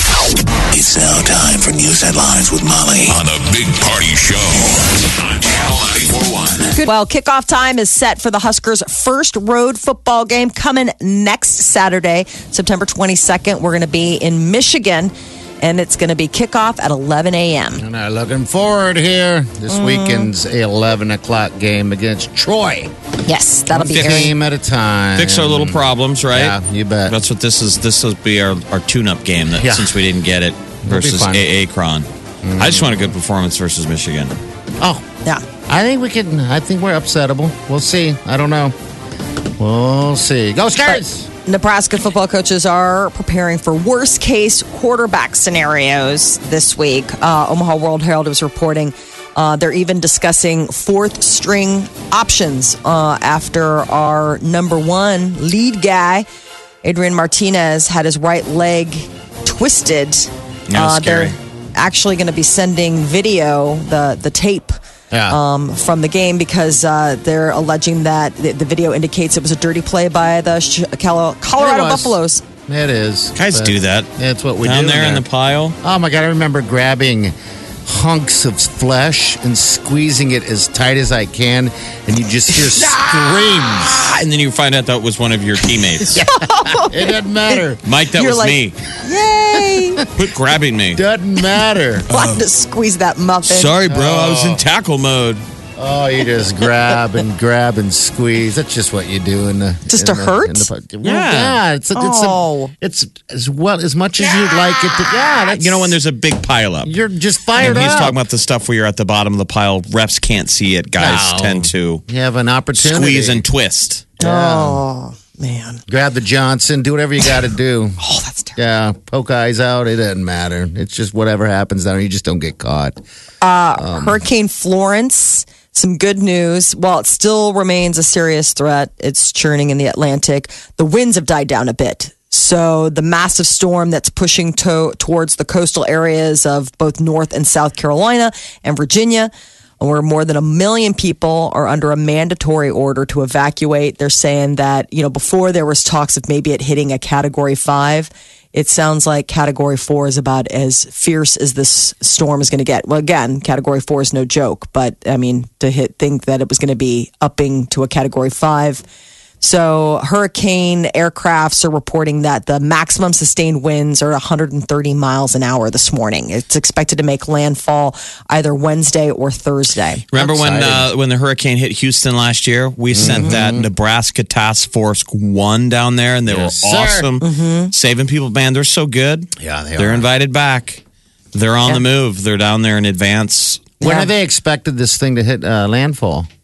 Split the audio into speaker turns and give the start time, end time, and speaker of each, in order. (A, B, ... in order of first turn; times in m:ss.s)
0:00.7-0:06.8 A
0:06.8-0:17.8 B
0:17.8-0:22.9 C
0:19.7-0:20.3 B
0:23.2-0:24.3 B
0:23.7-0:27.2 C
0:23.9-0:24.2 D
0:25.2-0:32.1 D
0:29.5-0:29.9 C
0:30.8-0:31.4 C
0:32.4-0:33.1 C
0:32.6-0:34.4 D
0:35.7-0:38.7 C
0:39.6-0:41.3 C
0:40.8-0:56.3 B
0:56.8-1:04.7 B
1:00.7-1:01.4 D
1:05.1-1:05.4 C
1:05.3-1:12.4 B
1:11.6-1:15.2 C
1:13.4-1:14.1 D
1:14.6-1:15.8 D
1:15.8-1:17.3 C
1:17.8-1:24.0 C
1:23.8-1:26.2 D
1:26.1-1:27.8 C
1:26.2-1:27.6 B
1:27.8-1:28.8 D
1:28.1-1:30.0 B
1:29.5-1:29.8 C
1:30.1-1:31.0 D
1:30.9-1:32.0 C
1:32.1-1:32.4 D
1:32.1-1:33.7 B
1:33.4-1:35.4 D
1:33.9-1:34.6 C
1:35.8-1:46.0 C
1:39.9-1:40.7 B
1:41.0-1:41.6 D
1:41.9-1:42.7 B
1:45.4-1:46.9 D
1:46.8-1:48.2 C
1:47.6-1:52.0 D
1:51.0-1:53.4 C
1:52.8-1:54.1 D
1:54.2-1:54.8 C
1:54.2-1:55.8 B
1:55.9-1:58.0 C
1:58.0-1:58.6 B
1:58.6-2:03.0 C
2:03.4-2:38.8 B
2:03.8-2:04.2 C
2:39.4-2:50.0 B
2:50.1-3:00.8 D
2:50.1-2:50.9 C
2:52.9-2:53.6 C
2:53.0-2:53.3 B
2:56.3-2:57.1 C
2:57.2-2:57.7 B
2:59.4-3:00.1 C
3:01.3-3:03.7 D
3:03.8-3:06.3 C
3:03.8-3:04.1 B